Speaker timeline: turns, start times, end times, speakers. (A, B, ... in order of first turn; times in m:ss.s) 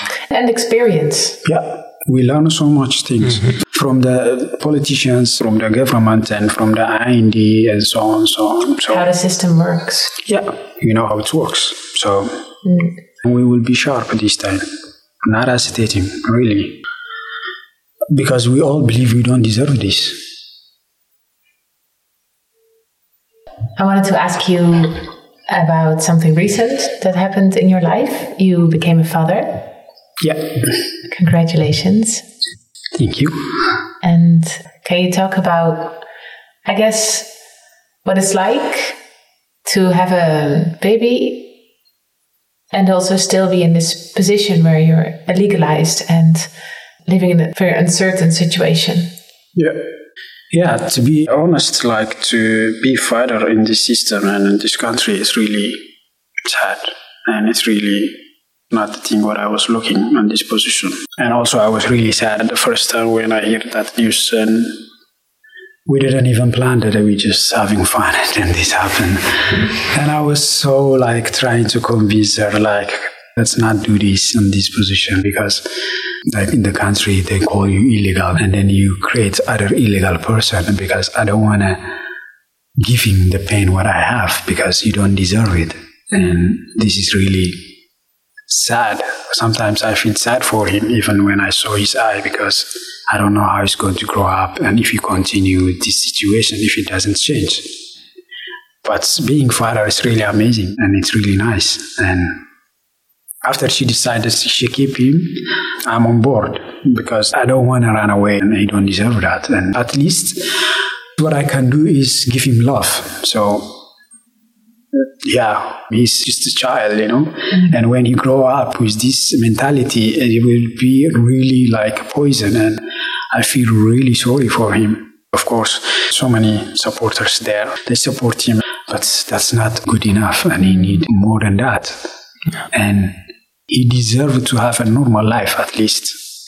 0:00.3-0:01.4 A
0:01.4-0:09.1 B
0:08.9-0:10.1 A
0:10.2-0:12.4 B
0:12.6-0:13.0 A
0:13.2-0:14.7 B
0:15.2-0:16.8 B
0:18.1-0:20.2 B
0:23.8-0:29.7 A
0:30.2-0:30.6 B
0:31.1-0:32.2 A
0:33.0-0:33.4 B
0:34.0-0:36.0 A
0:36.6-0:37.3 A
0:38.0-0:39.0 A
0:39.6-0:41.5 A
0:42.7-0:46.5 A
0:47.0-0:49.1 A
0:49.6-0:49.8 B
0:50.5-0:55.8 B
0:56.4-0:58.2 B
0:58.7-1:04.8 B
1:05.9-1:15.7 B
1:16.3-1:21.9 B
1:22.8-1:27.7 B
1:28.5-1:37.8 B
1:38.8-1:42.4 B
1:43.4-1:50.6 B
1:51.2-1:53.8 B
1:54.9-2:12.1 B
2:12.7-2:13.2 B
2:13.7-2:16.2 B